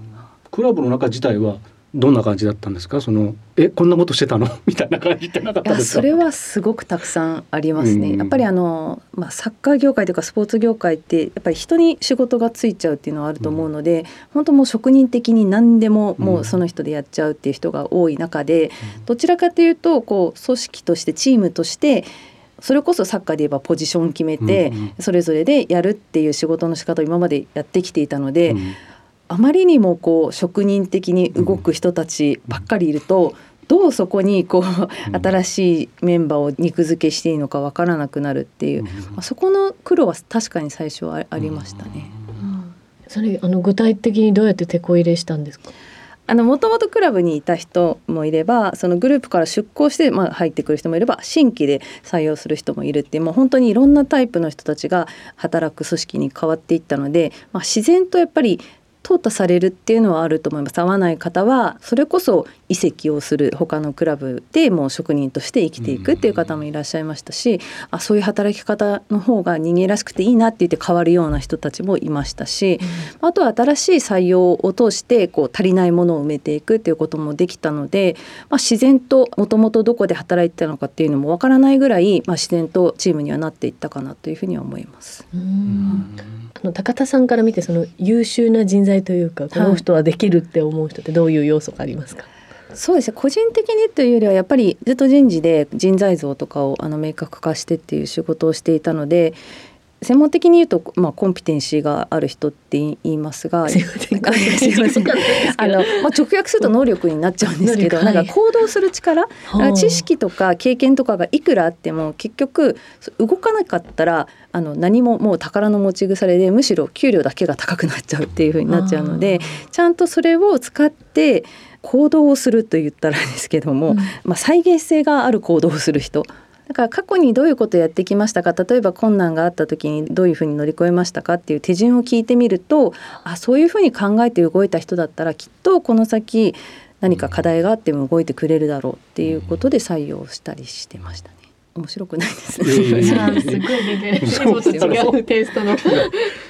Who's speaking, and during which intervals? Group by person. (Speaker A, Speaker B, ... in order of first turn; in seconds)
Speaker A: 0.5-6.1, 7.8-8.5, 16.2-16.5, 24.4-24.9, 28.5-28.8, 38.8-39.1, 41.4-41.9, 85.7-86.2, 139.3-139.5, 142.6-145.1, 145.7-146.1
Speaker B: 5.6-22.1, 22.6-28.7, 29.3-42.7, 46.3-85.2, 89.5-89.8, 92.8-99.4, 100.0-145.1
Speaker C: 43.1-45.7, 85.3-86.1, 86.6-92.3, 103.7-106.0, 107.6-108.3, 109.5-110.0, 118.7-119.6, 123.9-124.1, 142.9-146.3